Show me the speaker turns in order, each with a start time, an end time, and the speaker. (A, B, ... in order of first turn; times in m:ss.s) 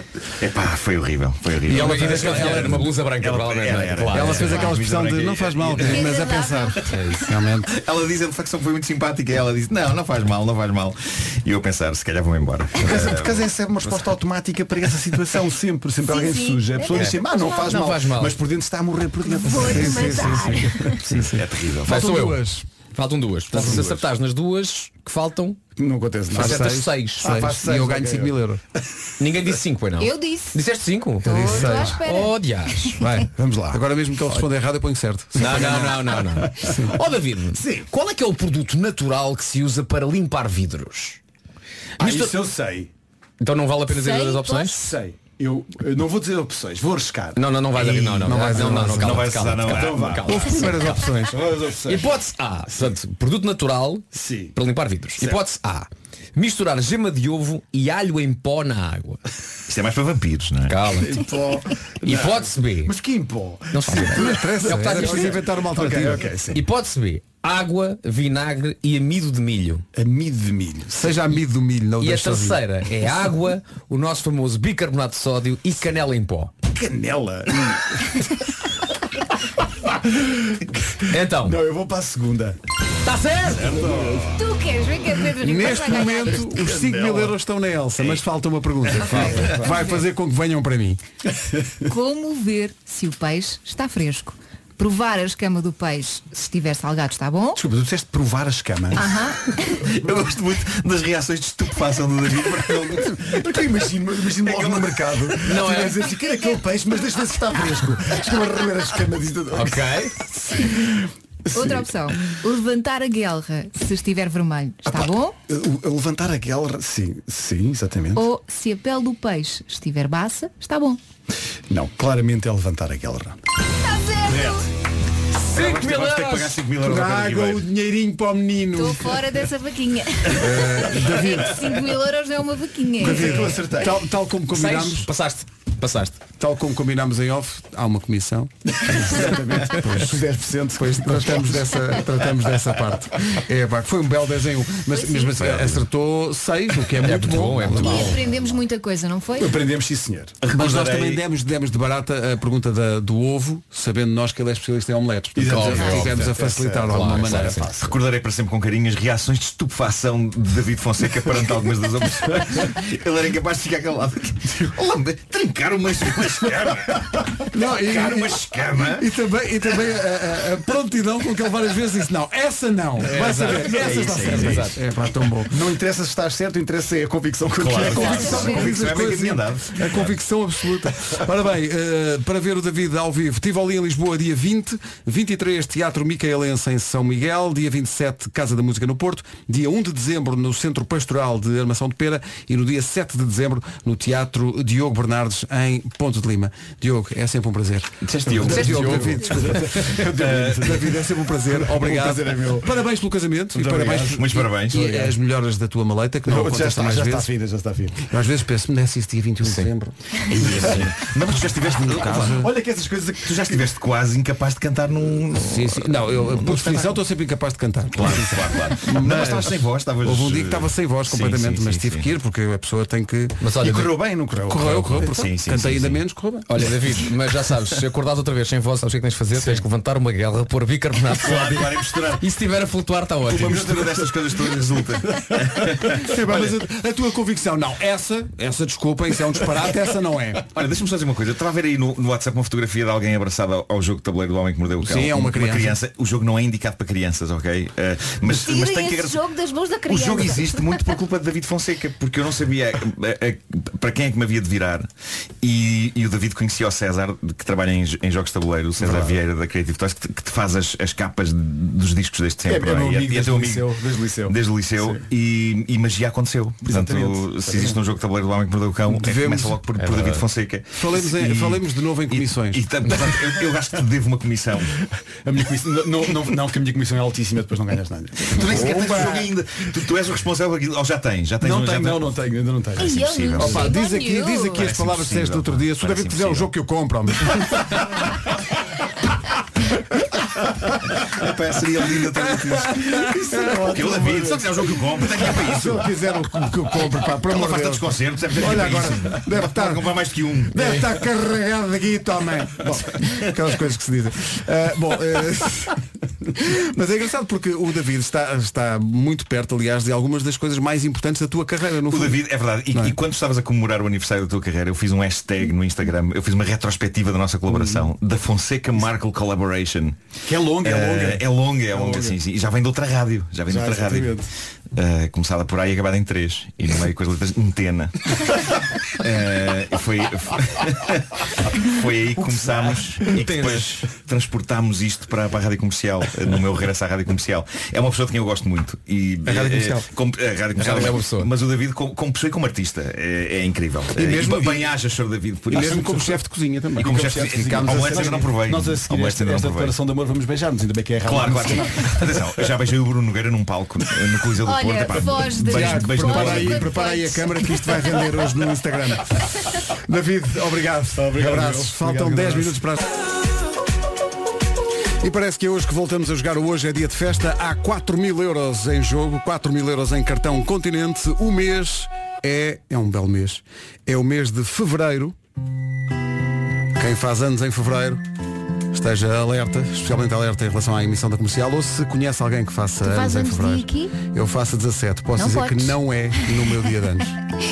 0:00.4-0:06.1 A
0:01.7-0:02.9 B
0:01.7-0:04.8 C
0:04.1-0:07.7 B
0:05.8-0:06.9 D
0:06.9-0:07.2 C
0:07.7-0:13.5 A
0:12.8-0:20.9 E
0:16.0-0:17.8 D
0:16.9-0:18.4 C
0:19.3-0:21.0 D
0:19.6-0:22.7 B
0:21.3-0:22.0 A
0:21.8-0:22.4 C
0:22.9-0:25.6 C
0:23.5-0:24.1 E
0:23.6-0:23.8 B
0:25.8-0:28.4 E
0:26.3-0:28.6 B
0:26.3-0:27.3 C
0:29.2-0:33.0 C
0:30.0-0:30.6 D
0:31.2-0:32.9 D
0:31.2-0:32.0 B
0:31.6-0:31.9 E
0:33.0-0:36.0 B
0:33.4-0:33.8 E
0:35.4-0:41.2 C
0:35.5-0:35.8 E
0:36.4-0:36.7 E
0:36.6-0:36.9 B
0:37.5-0:37.9 E
0:42.0-0:42.4 C
0:42.0-0:42.9 E
0:43.4-0:44.8 C
0:43.9-0:44.9 D
0:44.8-0:47.4 E
0:47.4-0:51.1 C
0:47.7-0:50.2 A
0:48.2-0:49.2 B
0:49.6-0:50.6 E
0:50.3-0:51.4 B
0:51.3-0:52.1 E
0:51.8-0:59.2 C
0:54.1-0:54.5 E
0:59.7-1:00.8 A
1:00.7-1:01.2 C
1:00.9-1:06.6 E
1:02.0-1:02.9 C
1:03.7-1:05.4 C
1:03.9-1:06.3 B
1:06.5-1:09.8 C
1:09.9-1:11.2 E
1:10.9-1:12.6 B
1:12.0-1:16.5 C
1:16.7-1:18.4 E
1:19.9-1:20.6 E
1:21.1-1:21.6 C
1:21.4-1:22.6 E
1:23.0-1:24.1 C
1:23.6-1:24.3 E
1:24.3-1:26.5 D
1:25.4-1:31.0 B
1:26.3-1:27.4 E
1:29.0-1:29.7 E
1:29.0-1:30.0 D
1:31.8-1:37.6 D
1:37.6-1:39.1 E
1:39.0-1:39.8 D
1:39.8-1:43.3 A
1:43.0-1:52.1 E
1:44.5-1:44.9 A
1:45.4-1:46.0 C
1:46.0-1:46.7 D
1:49.5-1:50.2 C
1:51.5-1:55.4 D
1:54.9-1:58.2 E
1:58.2-2:01.0 D
2:01.7-2:03.4 E
2:03.8-2:04.7 D
2:04.3-2:04.6 A
2:05.4-2:06.6 C
2:05.5-2:07.7 A
2:06.8-2:09.2 B
2:08.7-2:13.6 D
2:10.3-2:11.7 B
2:13.0-2:13.9 E
2:13.0-2:15.1 B
2:14.5-2:16.2 C
2:16.4-2:20.2 B
2:18.8-2:22.0 E
2:20.7-2:28.2 B
2:24.9-2:25.4 D
2:25.4-2:25.8 C
2:27.0-2:28.2 C
2:27.8-2:28.6 E
2:27.8-2:29.6 D
2:29.4-2:30.4 E
2:30.4-2:31.2 A
2:30.5-2:37.6 B
2:35.4-2:37.9 E
2:35.4-2:37.8 C
2:37.8-2:47.0 A
2:47.5-2:55.6 B
2:47.7-2:49.1 A
2:53.0-2:54.8 C
2:53.5-2:54.7 A
2:55.5-2:58.8 E
2:57.6-3:00.2 A
2:57.9-2:58.7 D
2:58.1-3:27.3 B
3:18.0-3:19.0 A
3:18.3-3:22.8 E
3:18.4-3:19.8 C
3:20.2-3:20.6 A
3:23.5-3:24.2 E
3:24.2-3:25.0 A
3:26.3-3:28.0 E
3:28.1-3:32.6 B
3:29.4-3:29.7 C
3:30.3-3:32.5 A
3:30.5-3:30.9 C
3:32.3-3:33.7 E
3:33.2-3:37.0 A
3:35.3-3:43.4 B
3:37.9-3:42.1 A
3:43.4-3:43.9 C
3:43.6-3:45.1 E
3:44.5-3:46.5 B
3:44.7-3:46.0 A
3:46.5-3:53.8 C
3:51.2-3:52.2 A
3:53.3-3:56.4 A
3:53.4-3:54.1 E
3:56.0-4:00.4 B
4:00.5-4:09.2 A
4:04.8-4:05.8 B
4:08.3-4:10.8 D
4:09.9-4:14.9 A
4:15.4-4:23.7 A
4:18.8-4:19.2 E
4:22.4-4:25.0 E
4:24.3-4:34.7 A
4:26.6-4:27.8 E
4:28.9-4:29.6 B
4:29.8-4:30.3 C
4:30.7-4:32.7 B
4:35.2-4:39.3 E
4:38.3-4:42.1 A
4:38.6-4:39.2 B
4:41.4-4:43.6 E
4:42.8-4:44.7 D
4:42.8-4:43.6 A
4:43.4-4:47.7 B
4:44.5-4:46.5 A
4:51.0-4:52.8 A
4:52.7-4:53.7 B
4:53.0-4:56.2 E
4:53.6-4:55.8 A
4:55.3-5:05.8 B
4:57.2-5:00.6 A
5:06.4-5:13.0 B
5:11.9-5:20.0 A
5:17.5-5:17.8 E
5:20.2-5:22.2 E
5:20.6-5:24.2 A
5:23.5-5:24.3 E
5:24.7-5:27.9 A
5:29.0-5:31.0 A
5:31.6-5:46.1 A
5:32.3-5:32.7 E
5:33.0-5:33.8 C
5:39.3-5:39.8 B
5:40.6-5:41.3 C
5:44.0-5:44.7 B
5:45.5-5:48.3 B
5:45.6-5:46.2 E
5:46.8-5:49.8 A
5:46.8-5:52.2 E
5:51.0-5:56.8 A
5:54.4-5:57.7 D
5:55.4-5:59.3 B
5:59.9-6:03.0 B
6:01.0-6:02.6 E
6:05.0-6:15.2 B
6:16.8-6:18.0 B
6:18.7-6:27.2 B
6:22.8-6:23.9 D
6:25.2-6:25.8 D